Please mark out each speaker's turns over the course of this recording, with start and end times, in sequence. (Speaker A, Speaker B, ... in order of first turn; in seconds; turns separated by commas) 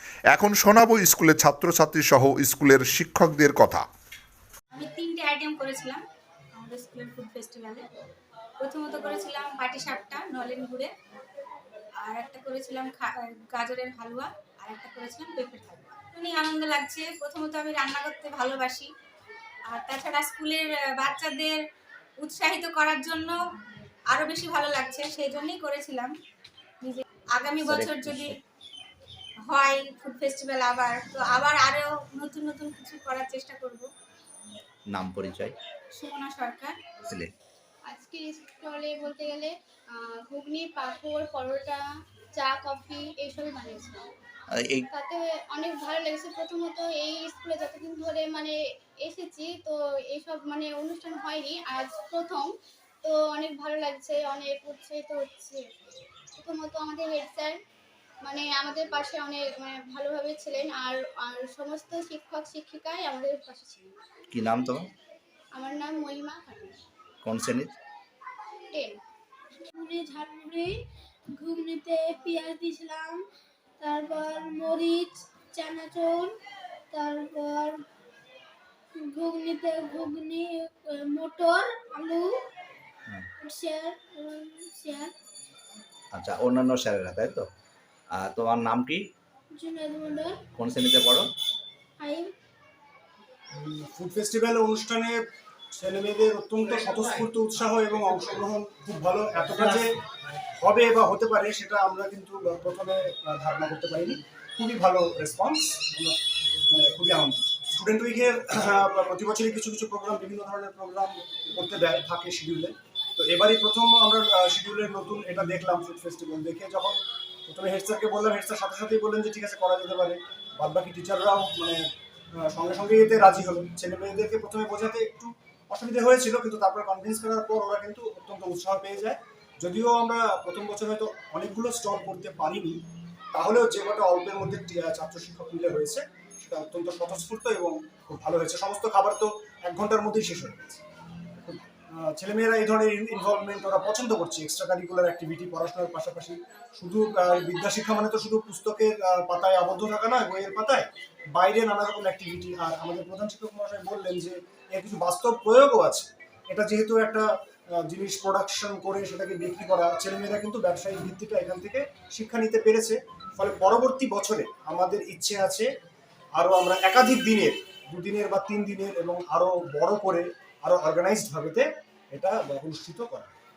Speaker A: 0.3-3.9, Speaker B: 4.7-6.0, Speaker B: 6.5-7.8, Speaker B: 8.6-10.9, Speaker B: 12.0-18.9, Speaker B: 19.7-21.6, Speaker B: 22.2-23.4, Speaker B: 24.1-26.1, Speaker B: 26.8-28.4, Speaker C: 27.6-28.4, Speaker B: 29.5-33.9, Speaker C: 34.9-35.5, Speaker B: 36.0-36.7, Speaker D: 37.9-41.8, Speaker D: 42.4-44.1, Speaker C: 44.5-44.9, Speaker D: 44.9-52.5, Speaker D: 53.0-55.6, Speaker D: 56.4-57.6, Speaker D: 58.2-64.0, Speaker C: 64.3-64.8, Speaker D: 65.5-66.7, Speaker C: 67.2-67.8, Speaker D: 68.7-69.0, Speaker E: 69.8-70.8, Speaker E: 71.3-73.2, Speaker E: 73.8-76.4, Speaker E: 76.9-77.8, Speaker E: 79.0-82.3, Speaker E: 83.4-85.1, Speaker C: 86.1-87.5, Speaker C: 88.1-89.0, Speaker E: 89.5-90.4, Speaker C: 90.5-91.3, Speaker E: 92.0-92.3, Speaker F: 93.5-95.2, Speaker F: 95.7-99.9, Speaker F: 100.6-106.2, Speaker F: 106.7-117.0, Speaker F: 117.5-121.8, Speaker F: 122.3-132.8, Speaker F: 133.3-140.8, Speaker F: 141.4-165.7, Speaker F: 166.3-173.3